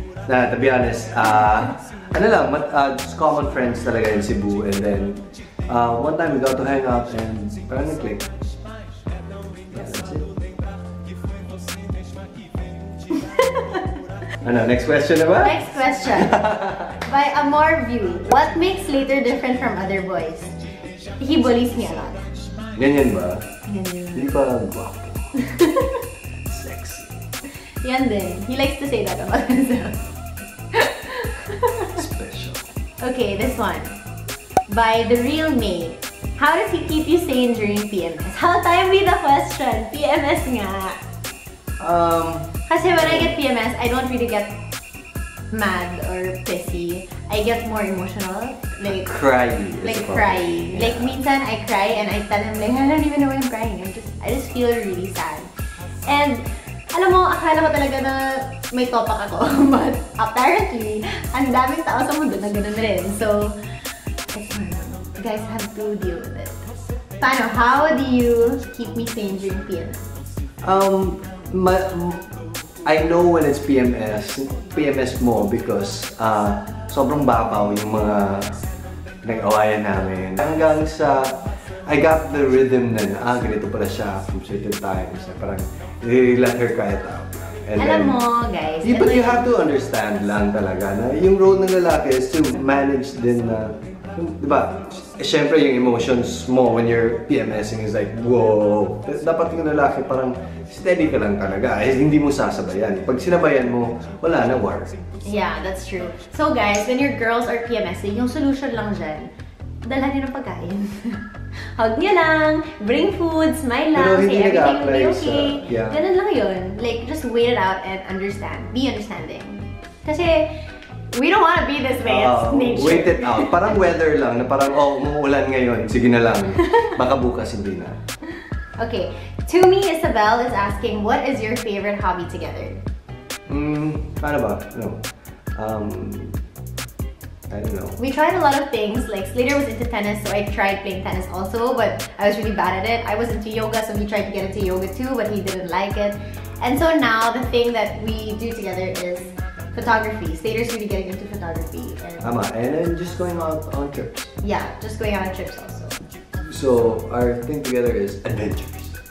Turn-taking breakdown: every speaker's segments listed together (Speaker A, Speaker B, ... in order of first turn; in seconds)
Speaker A: 0.3-8.3, 9.7-10.3, 14.4-16.9, 22.7-23.5, 24.1-25.3, 26.4-27.2, 31.9-32.7, 41.8-43.4, 48.8-51.2, 70.6-72.2, 72.8-78.6, 79.2-88.2, 88.8-104.9, 113.9-116.0, 122.0-128.0, 133.5-135.0, 135.6-136.4, 137.5-138.0, 152.2-154.3, 156.4-158.9
Speaker B: 13.2-13.8, 15.4-20.5, 21.2-22.2, 23.6-24.3, 25.4-26.0, 27.8-30.0, 30.7-32.0, 33.0-34.0, 34.7-41.0, 42.7-44.6, 45.5-49.1, 49.8-55.5, 56.0-63.5, 64.3-66.7, 67.2-70.0, 87.8-89.5, 105.2-109.3, 109.8-120.5, 121.1-123.8, 126.6-126.9, 128.8-132.8, 138.0-152.3, 154.4-156.0